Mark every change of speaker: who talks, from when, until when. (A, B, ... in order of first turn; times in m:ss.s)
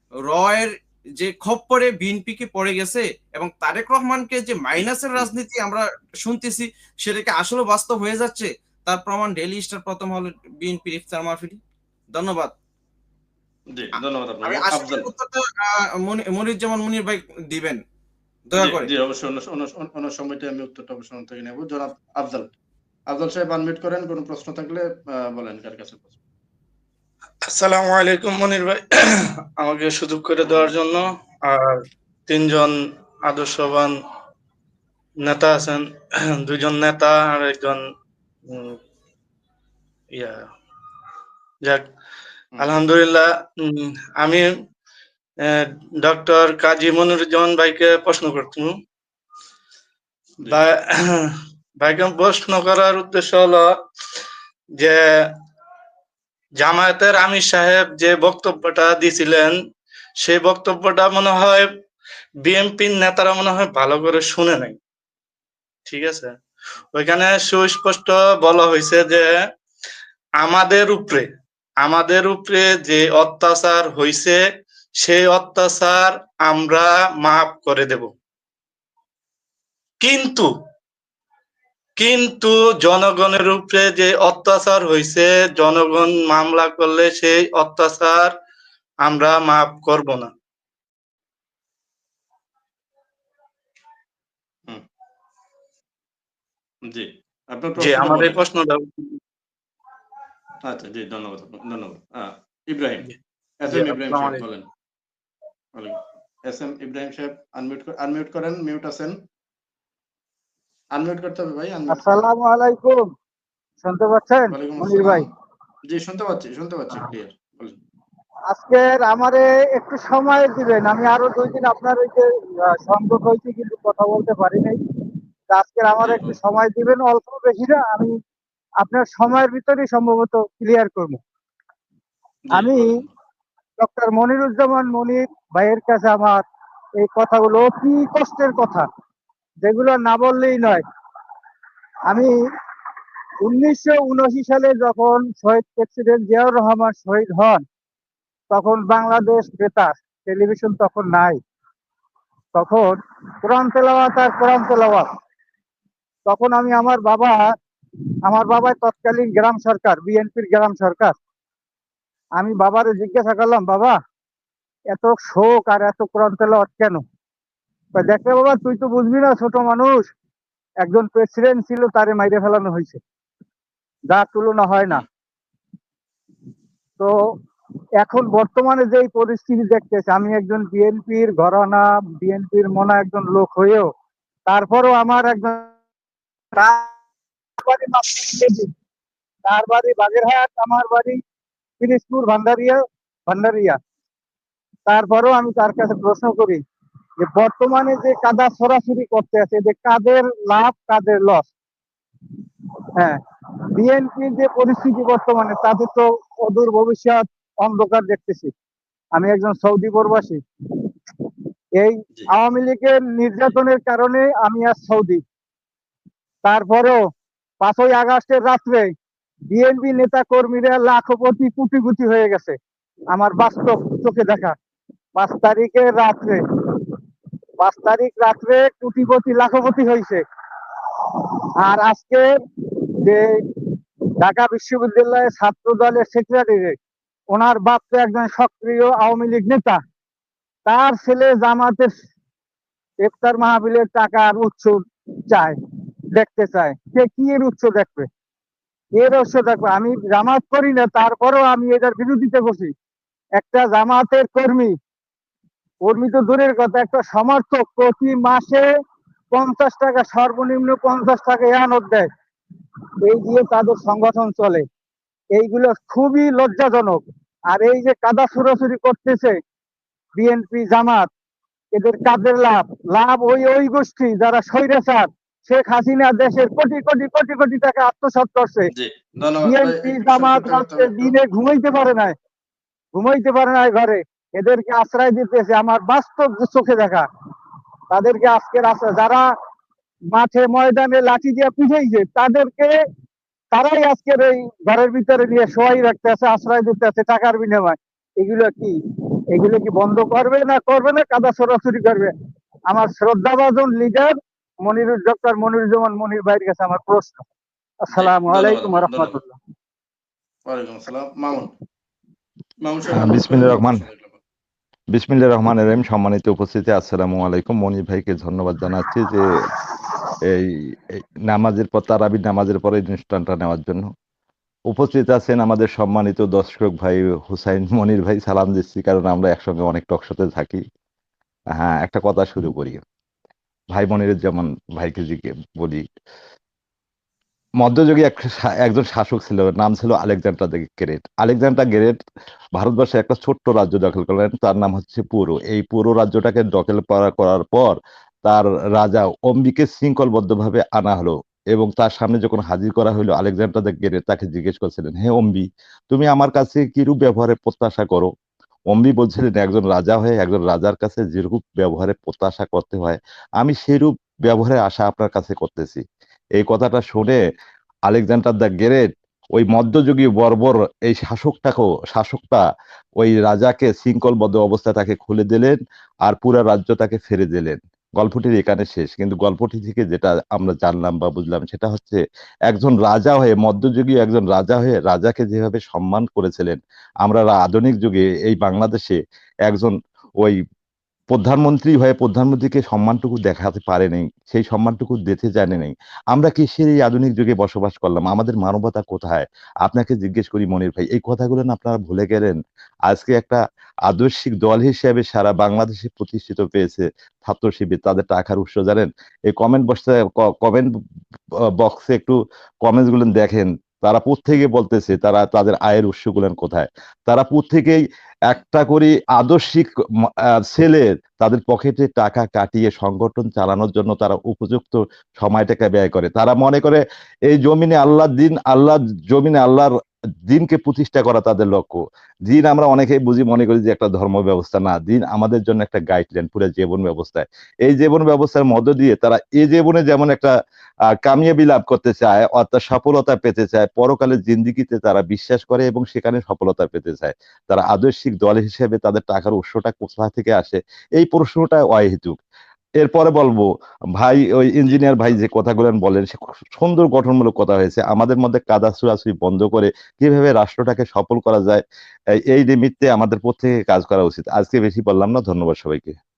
0:00.3-0:11.6 A
0:12.1-0:12.5 A
0:13.7-0:15.1 B
0:14.4-0:17.8 A
0:18.5-0:18.9 A
0:18.6-0:22.5 B
0:23.1-0:26.1 B
0:27.5-0:34.0 C
0:35.2-0:37.9 C
0:38.5-0:38.8 C
0:40.1-0:40.4 C
0:42.6-0:44.5 C
0:45.4-0:48.7 C
0:50.5-0:53.7 C
0:54.8-0:55.2 C
0:56.6-0:59.6 C
1:00.2-1:01.7 C
1:02.4-1:04.8 C
1:05.8-1:06.3 C
1:06.9-1:09.3 C
1:10.4-1:11.3 C
1:11.8-1:14.4 C
1:15.0-1:18.1 C
1:20.0-1:20.5 C
1:22.0-1:28.3 C
1:29.0-1:30.3 C
1:36.9-1:38.4 B
1:37.8-1:38.8 C
1:40.6-1:44.6 B
1:44.0-1:44.4 D
1:45.7-1:49.2 B
1:50.9-1:52.3 B
1:51.9-1:53.0 D
1:53.8-1:55.2 D
1:54.5-1:55.3 B
1:55.9-1:57.8 B
1:58.5-2:04.8 D
2:05.5-2:08.1 D
2:06.0-2:06.4 B
2:08.8-2:11.2 D
2:12.4-2:13.1 B
2:12.5-2:13.0 D
2:13.8-2:16.4 D
2:17.0-2:18.8 D
2:19.6-2:20.8 D
2:22.1-2:22.3 D
2:23.4-2:27.6 D
2:28.5-2:31.4 D
2:32.6-2:35.1 D
2:36.2-2:37.5 D
2:38.2-2:41.2 D
2:42.4-2:44.0 D
2:44.9-2:47.0 D
2:48.0-2:50.1 D
2:50.8-2:53.0 D
2:54.1-2:55.0 D
2:58.0-3:03.9 D
3:04.5-3:05.7 D
3:06.5-3:06.9 D
3:07.6-3:08.7 D
3:09.4-3:11.2 D
3:11.8-3:13.8 D
3:14.9-3:16.6 D
3:17.2-3:21.5 D
3:23.8-3:28.5 D
3:29.1-3:30.4 D
3:31.8-3:35.2 D
3:36.4-3:37.0 D
3:37.6-3:38.8 D
3:39.5-3:42.6 D
3:43.1-3:44.6 D
3:45.2-3:46.4 D
3:47.6-3:50.2 D
3:51.6-3:52.3 D
3:54.2-3:56.8 D
3:57.3-3:59.8 D
4:00.6-4:01.9 D
4:03.0-4:05.6 D
4:06.1-4:08.1 D
4:08.9-4:12.7 D
4:13.4-4:14.7 D
4:15.8-4:18.6 D
4:19.3-4:22.1 D
4:23.0-4:24.6 D
4:25.3-4:29.4 D
4:30.2-4:31.1 D
4:31.7-4:38.7 D
4:38.7-4:41.1 B
4:39.4-4:42.1 D
4:42.9-4:47.0 D
4:47.9-4:49.2 D
4:50.1-4:52.7 D
4:53.5-4:58.8 D
4:59.3-5:02.1 D
5:02.7-5:07.2 D
5:07.8-5:09.4 D
5:07.9-5:09.2 B
5:10.4-5:11.5 B
5:12.6-5:14.2 B
5:12.9-5:13.8 E
5:14.9-5:19.4 E
5:20.2-5:20.6 E
5:21.3-5:23.9 E
5:24.7-5:30.6 E
5:31.5-5:32.8 E
5:33.7-5:35.8 E
5:37.6-5:42.0 E
5:42.6-5:58.1 E
5:58.7-6:05.8 E
6:06.4-6:07.2 E
6:07.9-6:12.4 E
6:13.0-6:30.4 E
6:31.1-6:50.7 E
6:51.6-6:59.7 E
7:00.4-7:09.7 E
7:10.2-7:20.3 E
7:21.0-7:32.2 E
7:32.8-7:41.6 E
7:42.3-7:46.0 E